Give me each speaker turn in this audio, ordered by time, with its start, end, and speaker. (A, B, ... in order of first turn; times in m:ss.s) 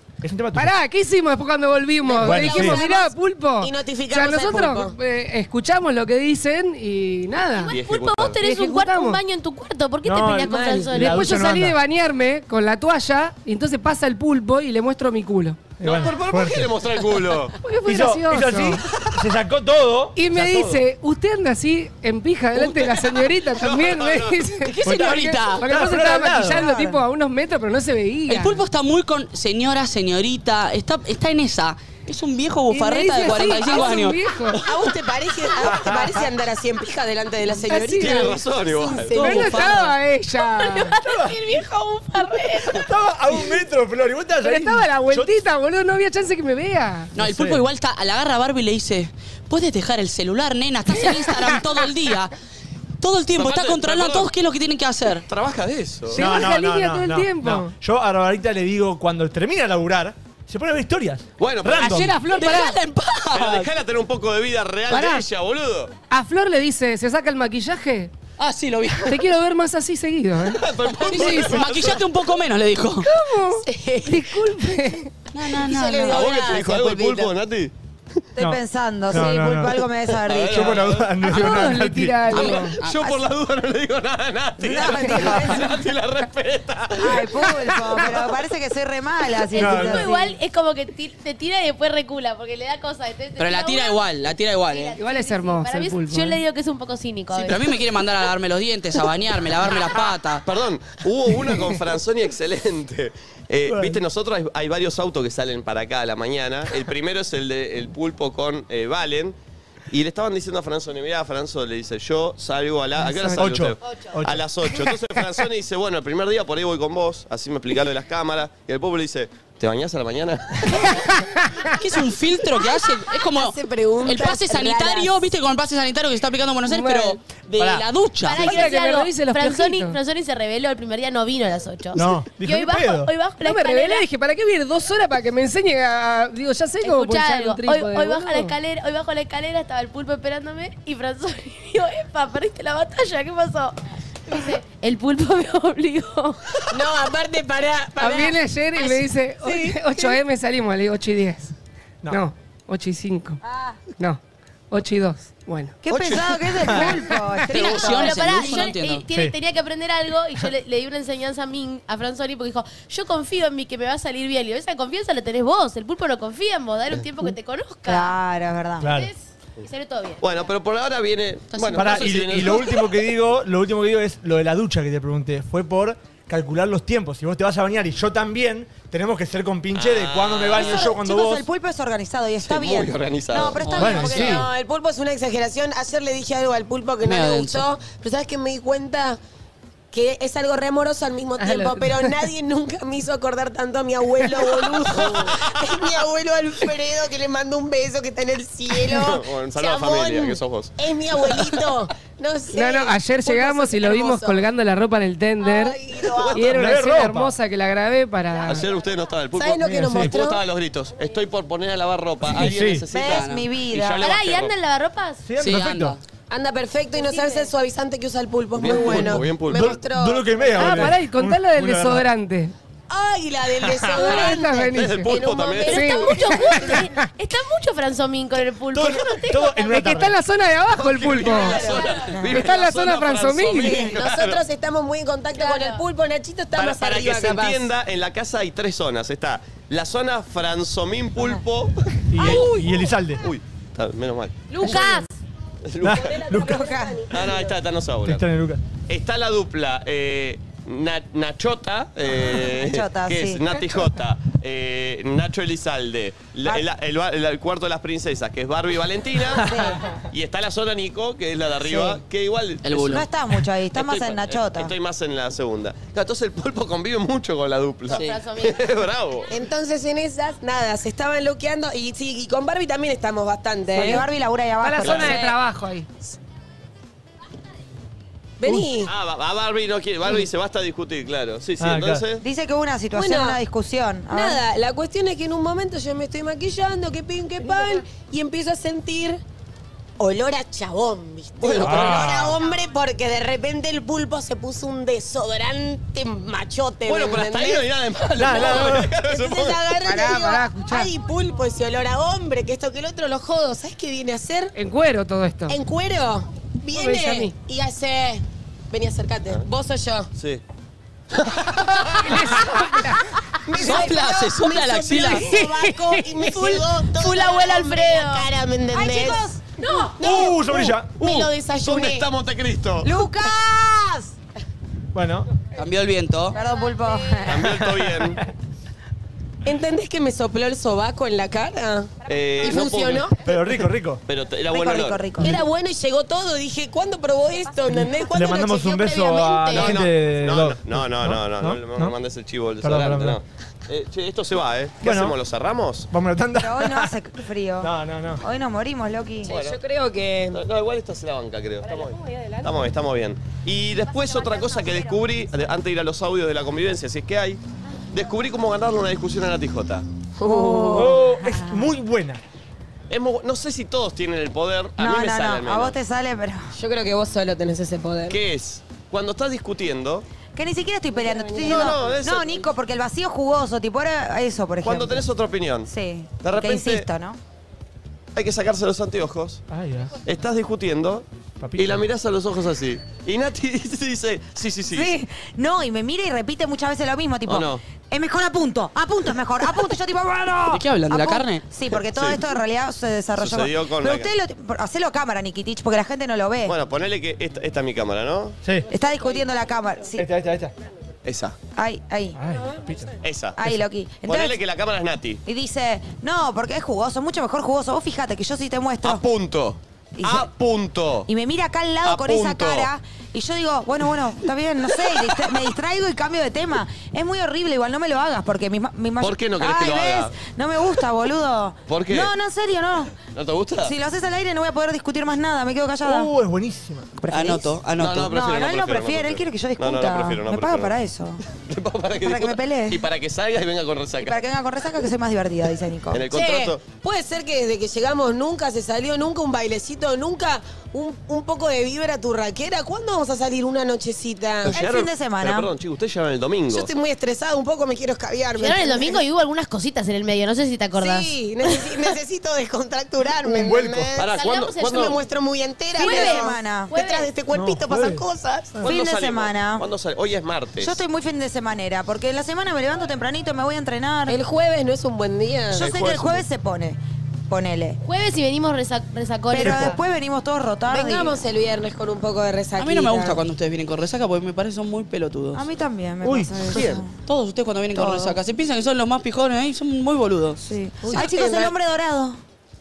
0:00.2-0:00.7 A
0:00.5-0:07.8 B
0:02.0-0:04.9 C
0:02.2-0:02.8 A
0:07.6-0:11.4 D
0:07.7-0:08.4 E
0:08.4-0:09.2 B
0:10.0-0:11.8 A
0:10.4-0:11.0 C
0:10.9-0:15.7 B
0:15.8-0:16.7 A
0:15.8-0:17.6 E
0:17.6-0:18.8 B
0:17.8-0:20.4 A
0:20.1-0:28.6 B
0:20.4-0:20.8 E
0:22.5-0:24.4 E
0:24.6-0:25.9 F
0:25.6-0:26.7 A
0:26.5-0:27.0 G
0:28.3-0:34.3 F
0:32.7-0:34.6 B
0:34.6-0:39.9 C
0:35.7-0:36.0 A
0:37.7-0:38.4 B
0:38.0-0:39.4 E
0:39.1-0:41.0 B
0:39.1-0:39.9 F
0:40.5-0:42.9 D
0:41.0-0:41.3 A
0:42.6-0:45.3 A
0:44.4-0:47.1 B
0:47.1-0:52.3 F
0:47.2-0:47.6 A
0:53.0-0:55.2 F
0:53.4-0:54.3 E
0:55.3-0:56.3 E
0:56.1-0:57.7 B
0:56.1-1:02.1 A
1:01.4-1:02.1 E
1:01.8-1:02.8 B
1:01.8-1:03.7 F
1:03.3-1:05.9 E
1:04.9-1:05.2 B
1:06.1-1:08.1 B
1:08.4-1:09.2 F
1:09.1-1:11.6 B
1:10.5-1:12.0 E
1:11.0-1:13.1 F
1:13.0-1:15.1 B
1:13.6-1:14.5 C
1:15.3-1:16.3 F
1:15.5-1:17.3 C
1:16.1-1:17.7 E
1:18.4-1:20.8 G
1:18.4-1:19.8 A
1:20.2-1:21.2 E
1:20.4-1:22.4 A
1:21.2-1:22.8 B
1:22.3-1:23.2 F
1:22.3-1:27.4 E
1:24.6-1:25.7 G
1:27.0-1:30.4 G
1:29.5-1:37.7 D
1:29.6-1:30.1 A
1:33.4-1:35.0 F
1:35.0-1:36.4 B
1:37.3-1:40.4 F
1:40.4-1:49.4 E
1:43.7-1:44.0 A
1:49.9-2:01.0 E
1:53.0-1:53.4 B
1:53.3-1:55.0 A
2:01.7-2:08.7 F
2:03.3-2:05.2 C
2:06.6-2:07.2 B
2:07.6-2:07.8 A
2:08.2-2:14.0 D
2:08.3-2:10.0 B
2:11.9-2:13.1 A
2:13.4-2:18.5 B
2:16.8-2:23.8 D
2:24.3-2:26.4 D
2:26.7-2:30.2 C
2:28.0-2:31.5 B
2:32.1-2:33.4 B
2:34.0-2:35.8 B
2:35.8-2:38.5 G
2:35.9-2:36.4 E
2:36.9-2:37.4 B
2:37.5-2:39.0 F
2:37.6-2:48.2 D
2:47.8-2:48.9 G
2:48.8-2:49.1 A
2:48.8-2:50.2 D
2:50.2-2:53.0 E
2:51.5-2:52.1 F
2:51.7-3:01.5 A
2:59.7-3:00.9 E
3:00.5-3:04.4 G
3:02.4-3:04.3 E
3:03.6-3:04.1 F
3:03.7-3:04.5 A
3:03.8-3:09.2 C
3:07.0-3:07.6 F
3:09.9-3:24.5 C
3:11.4-3:12.1 B
3:14.9-3:15.3 E
3:18.9-3:20.7 E
3:22.5-3:25.8 B
3:25.4-3:26.5 C
3:26.1-3:26.7 E
3:26.3-3:28.6 B
3:26.5-3:27.3 A
3:28.4-3:34.5 E
3:29.3-3:30.4 C
3:29.6-3:30.1 A
3:32.3-3:32.8 A
3:32.9-3:34.1 G
3:33.0-3:33.4 F
3:34.0-3:35.2 D
3:35.2-3:36.0 A
3:35.4-3:36.0 F
3:36.3-3:40.9 C
3:37.0-3:37.5 D
3:38.6-3:39.8 E
3:38.6-3:42.0 A
3:40.5-3:42.5 B
3:42.9-3:46.4 C
3:44.0-3:45.1 B
3:44.0-3:45.9 E
3:45.6-3:50.0 D
3:45.7-3:46.9 B
3:48.7-3:50.2 A
3:49.7-3:53.9 B
3:50.7-3:54.4 E
3:51.2-3:52.0 D
3:51.4-3:51.8 C
3:52.1-3:52.4 G
3:53.8-3:57.7 C
3:55.3-3:55.8 D
3:56.6-4:02.5 E
4:02.1-4:03.2 A
4:02.3-4:02.6 C
4:03.2-4:04.8 E
4:04.5-4:05.1 D
4:05.6-4:06.0 E
4:05.8-4:06.6 A
4:05.9-4:07.6 C
4:06.4-4:07.0 G
4:07.1-4:08.2 E
4:08.0-4:08.6 A
4:08.9-4:23.0 E
4:12.2-4:13.4 G
4:19.4-4:19.8 G
4:21.6-4:22.0 G
4:22.6-4:23.1 F
4:22.8-4:24.7 G
4:23.7-4:29.3 E
4:27.9-4:28.6 D
4:29.3-4:34.0 C
4:33.7-4:35.3 G
4:34.6-4:35.9 B
4:34.8-4:35.1 E
4:35.0-4:35.3 C
4:38.4-4:38.9 C
4:38.8-4:42.2 E
4:41.6-4:42.0 A
4:42.2-4:44.4 G
4:42.9-4:43.4 C
4:44.1-4:49.2 C
4:50.0-4:57.7 C
4:51.4-4:52.3 E
4:51.6-4:52.4 A
4:56.8-4:59.7 E
4:58.2-4:58.9 A
4:58.2-5:04.5 C
4:59.8-5:00.9 B
5:04.5-5:05.6 B
5:05.5-5:10.1 C
5:06.7-5:07.3 B
5:10.2-5:10.4 E
5:11.3-5:12.7 C
5:12.0-5:13.0 B
5:13.4-5:22.1 C
5:13.5-5:15.3 F
5:15.2-5:16.6 B
5:16.9-5:18.3 D
5:18.7-5:19.4 G
5:19.6-5:19.9 D
5:20.0-5:21.0 A
5:21.0-5:22.9 E
5:22.8-5:24.1 G
5:24.9-5:25.3 A
5:25.6-5:26.4 F
5:26.3-5:27.6 G
5:27.2-5:28.2 E
5:27.4-5:28.2 A
5:29.4-5:33.2 C
5:32.0-5:33.2 E
5:33.2-5:34.0 A
5:34.0-5:35.2 E
5:34.5-5:35.4 G
5:35.2-5:39.6 C
5:38.1-5:42.0 A
5:39.4-5:39.7 D
5:39.5-5:45.9 E
5:42.6-5:43.2 A
5:44.8-5:45.2 A
5:45.9-5:46.9 A
5:46.3-5:49.3 G
5:47.6-5:48.2 A
5:49.2-5:50.4 C
5:49.3-5:49.6 E
5:50.3-5:57.4 E
5:53.9-5:55.0 G
5:57.9-5:59.8 E
6:00.2-6:01.0 C
6:00.2-6:01.7 G
6:00.7-6:02.2 A
6:02.9-6:05.7 E
6:04.8-6:06.5 G
6:06.5-6:08.2 C
6:08.1-6:10.0 E
6:10.3-6:15.1 G
6:10.9-6:12.2 C
6:11.4-6:12.4 E
6:14.6-6:15.7 E
6:15.6-6:17.2 G
6:16.2-6:16.9 E
6:18.1-6:19.4 E
6:19.5-6:20.0 A
6:20.0-6:24.9 E
6:21.4-6:21.8 A
6:24.7-6:36.5 G
6:27.3-6:27.6 E
6:30.5-6:31.4 F
6:31.8-6:32.2 E
6:33.2-6:34.1 E
6:36.4-6:38.4 E
6:38.7-6:40.0 G
6:40.0-6:40.5 A
6:41.0-6:41.4 E
6:41.5-6:42.2 G
6:42.1-6:43.0 A
6:43.0-6:43.4 E
6:43.4-6:44.4 G
6:44.0-6:45.2 E
6:45.2-6:49.0 G
6:48.8-6:51.1 E
6:50.0-6:50.3 G
6:51.0-7:03.0 G
6:51.8-6:52.7 E
6:59.0-7:00.1 E
7:01.7-7:02.1 E
7:03.0-7:03.7 E
7:03.6-7:06.1 G
7:05.8-7:06.9 A
7:07.0-7:11.2 G
7:07.1-7:08.2 F
7:07.8-7:10.7 E
7:11.3-7:14.2 E
7:12.0-7:12.8 G
7:14.0-7:16.0 G
7:15.9-7:16.6 E
7:16.1-7:24.6 C
7:24.4-7:26.7 E
7:24.5-7:25.5 G
7:26.5-7:29.0 C
7:28.4-7:31.1 D
7:30.8-7:34.1 C
7:33.2-7:33.9 A
7:34.0-7:35.0 E
7:34.1-7:35.0 D
7:34.6-7:38.6 C
7:35.8-7:36.7 G
7:35.8-7:37.1 D
7:37.3-7:38.0 A
7:38.6-7:40.8 E
7:38.6-7:39.6 G
7:40.6-7:44.2 G
7:44.1-7:45.7 C
7:45.5-7:47.8 G
7:45.5-7:46.2 E
7:47.8-7:49.8 D
7:49.3-7:51.2 G
7:49.4-7:49.8 A
7:50.7-7:53.2 C
7:52.6-7:55.4 F
7:55.3-7:56.9 G
7:56.0-7:56.5 A
7:56.5-7:56.8 E
7:57.0-8:00.4 F
7:57.7-7:58.2 G
8:00.4-8:02.2 G
8:00.8-8:01.5 C